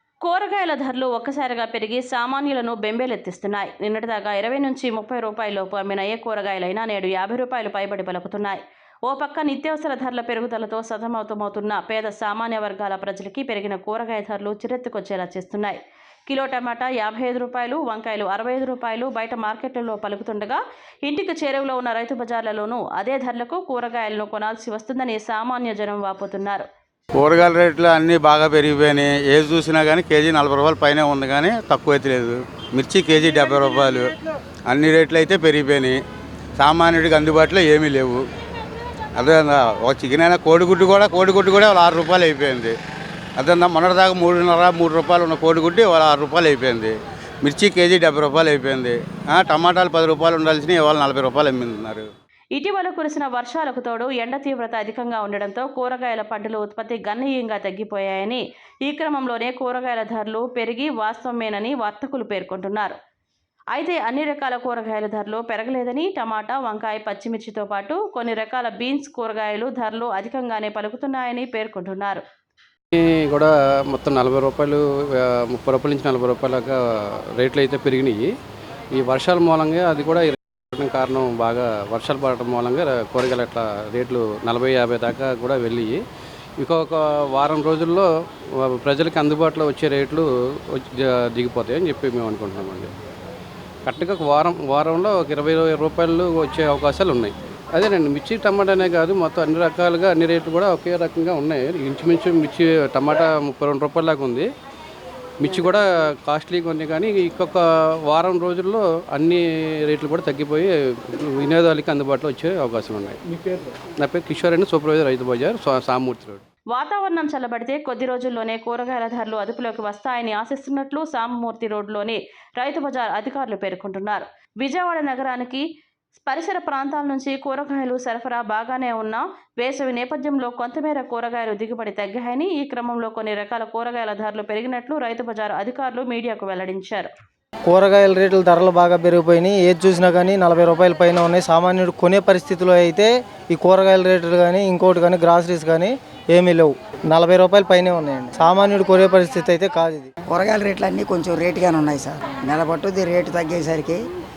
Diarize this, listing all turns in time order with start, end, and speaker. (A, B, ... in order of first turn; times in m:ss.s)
0:00.2-0:26.6 A
0:27.2-0:34.1 B
0:34.7-0:36.0 B
0:36.6-0:38.2 B
0:39.2-0:42.8 B
0:43.4-0:52.1 B
0:52.5-1:03.0 A
1:03.7-1:12.2 A
1:13.0-1:16.8 C
1:17.4-1:18.3 C
1:19.0-1:26.0 C
1:26.6-1:28.1 C
1:28.6-1:32.9 C
1:33.8-1:44.5 C
1:45.4-1:53.2 C
1:54.0-1:56.4 C
1:56.7-2:05.6 A
2:06.2-2:17.1 A
2:17.7-2:30.1 D
2:30.3-2:34.0 E